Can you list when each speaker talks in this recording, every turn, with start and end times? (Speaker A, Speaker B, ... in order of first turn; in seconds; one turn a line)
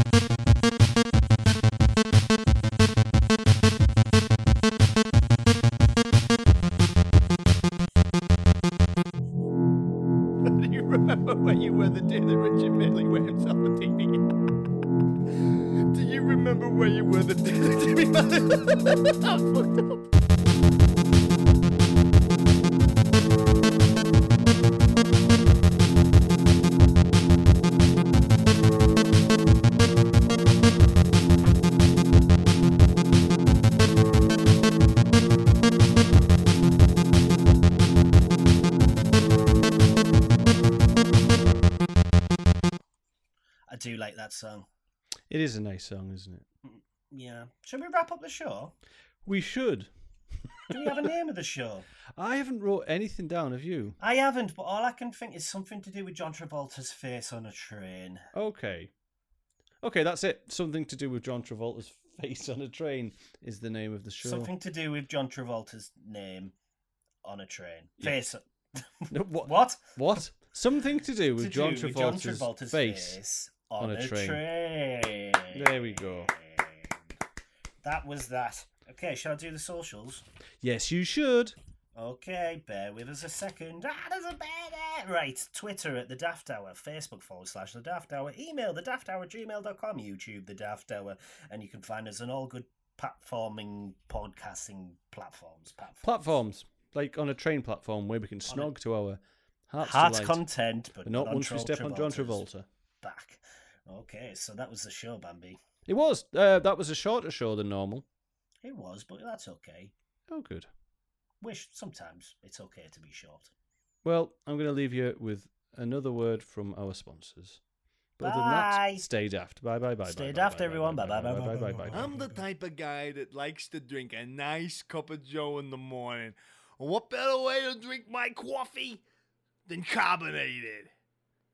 Speaker A: 10.4-14.2
Speaker A: 15.9-19.9
Speaker B: 43.7-44.7
Speaker C: 45.3-46.4
Speaker B: 46.6-48.7
Speaker C: 49.2-49.9
Speaker B: 50.7-51.9
Speaker C: 52.1-54.0
Speaker B: 54.0-58.2
Speaker C: 58.3-58.9
Speaker C: 59.8-64.5
Speaker B: 64.2-66.5
Speaker B: 67.2-70.0
Speaker C: 69.1-73.2
Speaker B: 71.3-77.0
Speaker C: 73.8-74.4
Speaker C: 75.5-76.3
Speaker B: 77.8-80.2
Speaker C: 80.6-81.5
Speaker B: 82.0-96.1
Speaker C: 96.0-100.4
Speaker B: 99.8-102.4
Speaker C: 101.0-102.7
Speaker B: 103.0-105.6
Speaker C: 105.9-108.0
Speaker B: 108.6-109.9
Speaker C: 110.3-110.7
Speaker B: 111.4-113.5
Speaker C: 114.0-117.6
Speaker C: 118.2-122.1
Speaker B: 118.2-119.0
Speaker B: 120.0-122.1
Speaker A: 121.9-129.0
Speaker A: 129.7-130.9